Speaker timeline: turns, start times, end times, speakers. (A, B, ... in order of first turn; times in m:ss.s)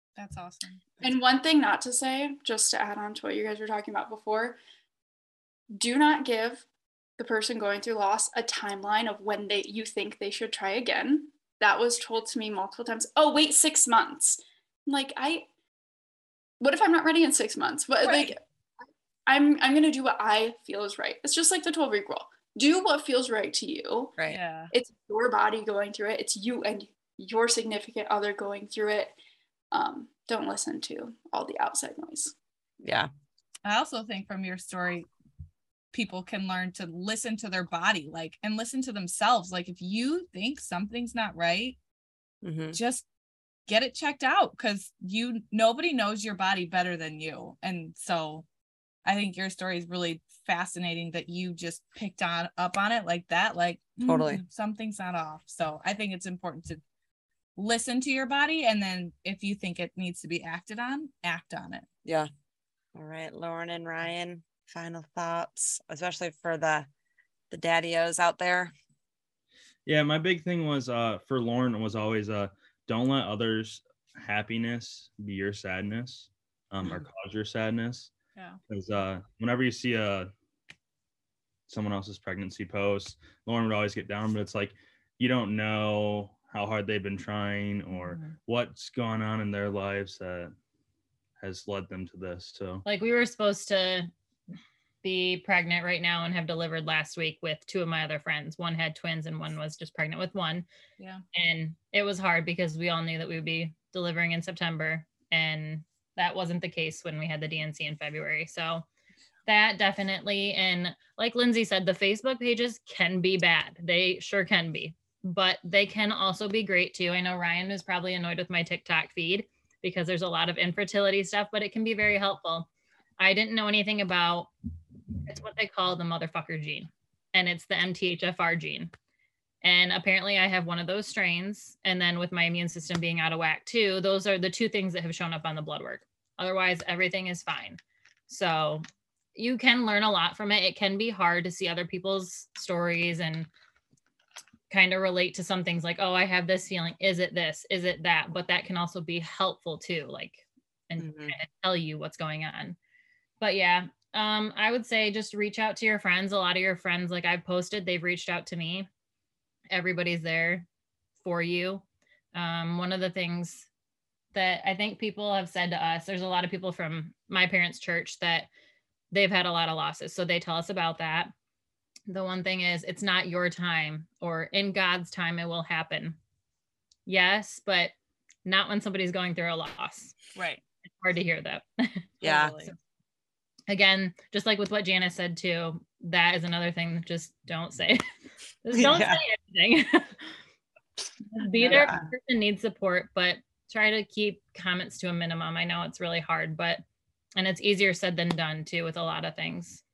0:00.2-0:01.0 A
0:01.0-0:04.6 B
0:05.7-0:06.7 B
0:07.2-0:15.5 B
0:16.6-0:18.4 B
0:18.0-0:18.4 A
0:19.3-0:24.2 B
0:24.3-0:24.7 A
0:24.7-0:29.2 B
0:29.7-0:32.3 B
0:32.8-0:33.1 C
0:33.6-0:35.1 A
0:35.9-0:41.8 A
0:42.4-0:42.8 C
0:42.7-0:43.1 A
0:43.7-0:48.5 A
0:49.0-0:56.8 A
0:54.0-0:54.4 C
0:57.6-1:01.9 A
1:03.0-1:06.9 C
1:07.5-1:08.7 C
1:09.9-1:18.1 D
1:18.7-1:20.3 D
1:21.7-1:30.5 D
1:31.4-1:32.8 D
1:32.8-1:34.1 E
1:35.0-1:40.7 E
1:41.0-1:41.2 A
1:41.3-1:48.9 E
1:49.5-2:04.5 E
2:05.3-2:08.9 E
2:09.6-2:23.5 E
2:24.7-2:32.8 E
2:31.0-2:31.4 C
2:33.4-2:38.9 E
2:39.7-2:40.7 E
2:41.2-2:43.7 E
2:44.3-2:48.5 E
2:49.1-2:51.3 E
2:52.1-2:56.2 E
2:57.1-2:57.9 E
2:58.4-3:00.2 E
3:00.4-3:00.6 A
3:01.0-3:02.1 E
3:02.2-3:02.7 A
3:02.2-3:02.5 C
3:03.7-3:08.0 E
3:08.6-3:10.4 E
3:08.7-3:09.2 C
3:11.4-3:16.8 E
3:11.6-3:11.9 A
3:11.6-3:12.1 C
3:17.4-3:19.8 E